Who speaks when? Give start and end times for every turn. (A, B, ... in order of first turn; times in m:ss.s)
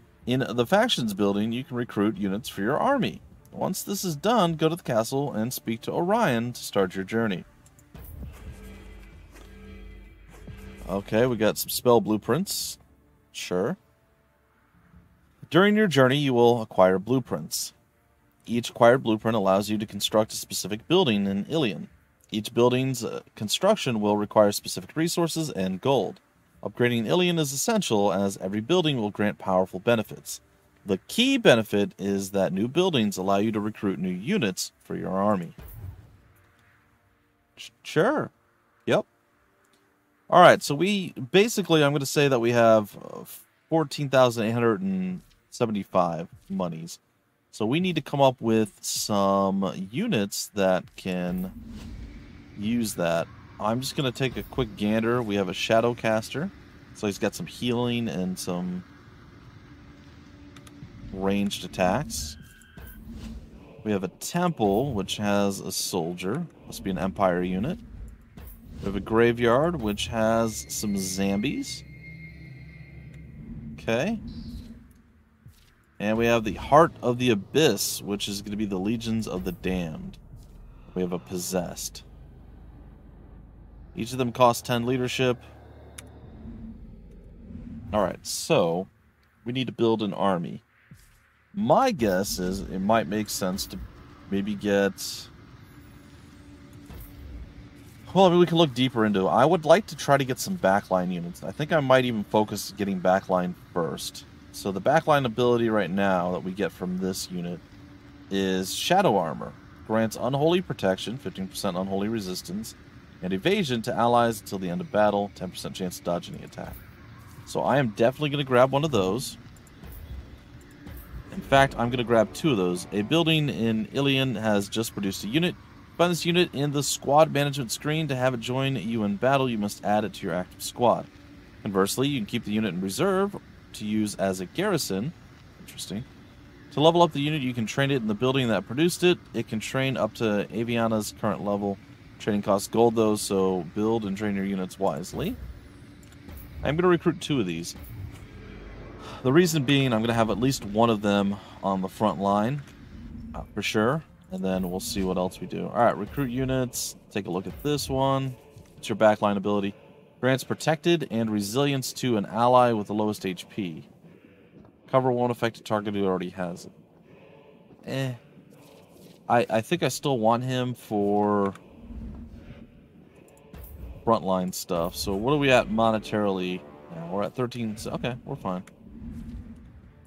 0:00.3-0:07.5 A
0:10.9-0:12.8 A
0:13.3-0:13.8 A
0:15.5-0:17.7 A
0:18.5-0:35.6 A
0:37.6-0:38.3 A
0:40.3-0:47.0 A
0:47.5-0:51.5 A
0:52.6-0:58.8 A
1:01.1-1:02.4 A
1:03.8-1:07.8 A
1:08.8-1:11.8 A
1:13.8-1:14.2 A
1:16.0-1:20.2 A
1:20.9-1:22.0 A
1:24.0-1:25.4 A
1:27.9-1:28.9 A
1:29.4-1:30.6 A
1:31.5-1:35.3 A
1:38.1-1:47.6 A
1:48.3-1:56.8 A
1:57.5-1:59.4 A
2:01.3-2:11.1 A
2:11.6-2:16.1 A
2:16.7-2:25.4 A
2:26.6-2:27.8 A
2:29.2-2:32.6 A
2:33.3-2:43.9 A
2:44.9-2:46.7 A
2:47.8-2:48.2 A
2:49.3-2:51.6 A
2:54.0-2:58.7 A